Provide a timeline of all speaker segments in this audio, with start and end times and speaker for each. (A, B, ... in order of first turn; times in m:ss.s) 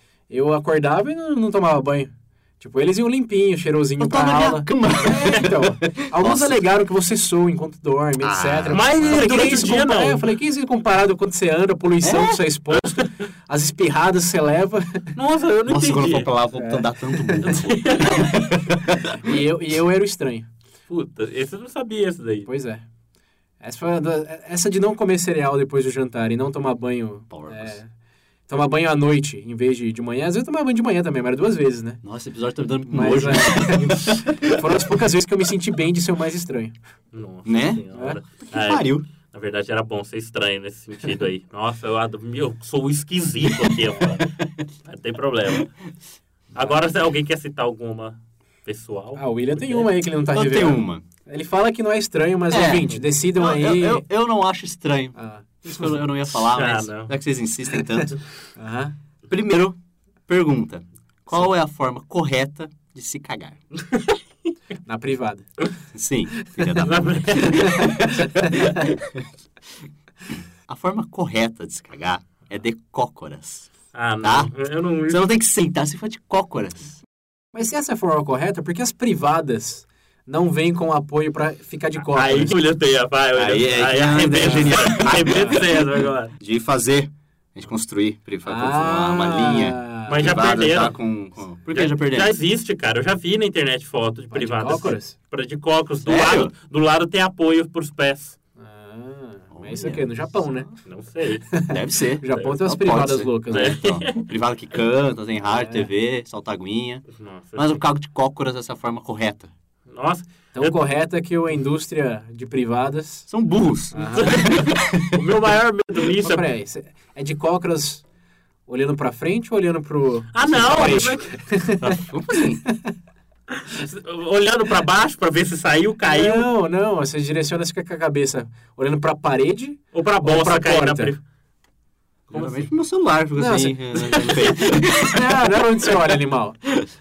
0:00.3-0:15.1 A
0:04.0-0:06.6 B
0:08.2-0:09.3 B
0:08.7-0:10.3 C
0:12.0-0:12.3 B
0:12.7-0:13.0 C
0:15.1-0:16.3 C
0:15.6-0:19.2 B
0:16.6-0:17.6 A
0:17.4-0:18.4 C
0:19.0-0:20.5 A
0:20.9-0:22.5 C
0:22.4-0:22.8 A
0:23.6-0:27.9 A
0:27.3-0:27.8 B
0:28.5-0:32.0 A
0:32.0-0:34.5 B
0:32.9-0:36.8 A
0:37.1-0:44.3 C
0:37.4-0:37.9 B
0:37.9-0:38.2 A
0:38.4-0:39.0 B
0:44.2-0:44.5 B
0:44.8-0:45.7 C
0:46.5-0:46.8 A
0:46.5-0:49.9 C
0:49.2-0:54.1 A
0:50.3-0:51.0 B
0:52.5-0:58.2 B
0:55.1-0:56.0 A
0:56.3-0:57.1 C
0:58.0-0:58.9 A
0:59.3-0:59.8 B
1:00.3-1:03.6 B
1:03.9-1:04.2 C
1:04.8-1:05.5 A
1:05.9-1:09.2 B
1:06.4-1:06.7 A
1:06.8-1:08.0 C
1:07.6-1:08.9 A
1:10.7-1:17.0 B
1:13.9-1:15.2 C
1:17.5-1:22.5 A
1:22.0-1:26.3 C
1:23.4-1:25.8 B
1:26.4-1:32.3 B
1:28.4-1:30.4 A
1:30.1-1:31.0 C
1:31.7-1:38.4 C
1:34.3-1:35.2 A
1:36.0-1:36.5 B
1:38.6-1:40.7 A
1:39.5-1:40.8 B
1:40.8-1:41.5 C
1:41.5-1:43.8 A
1:41.7-1:49.5 B
1:43.5-1:44.2 C
1:45.4-1:45.9 A
1:47.1-1:47.8 C
1:49.9-1:50.7 C
1:50.5-1:53.3 A
1:53.3-1:55.2 B
1:53.9-1:54.5 A
1:54.2-1:56.5 C
1:56.2-1:58.0 A
1:58.7-2:02.0 A
2:00.3-2:01.4 C
2:00.4-2:01.2 B
2:01.8-2:02.6 B
2:03.6-2:06.5 C
2:06.0-2:11.1 A
2:09.9-2:11.2 C
2:12.3-2:12.7 C
2:12.3-2:15.9 B
2:13.3-2:16.6 A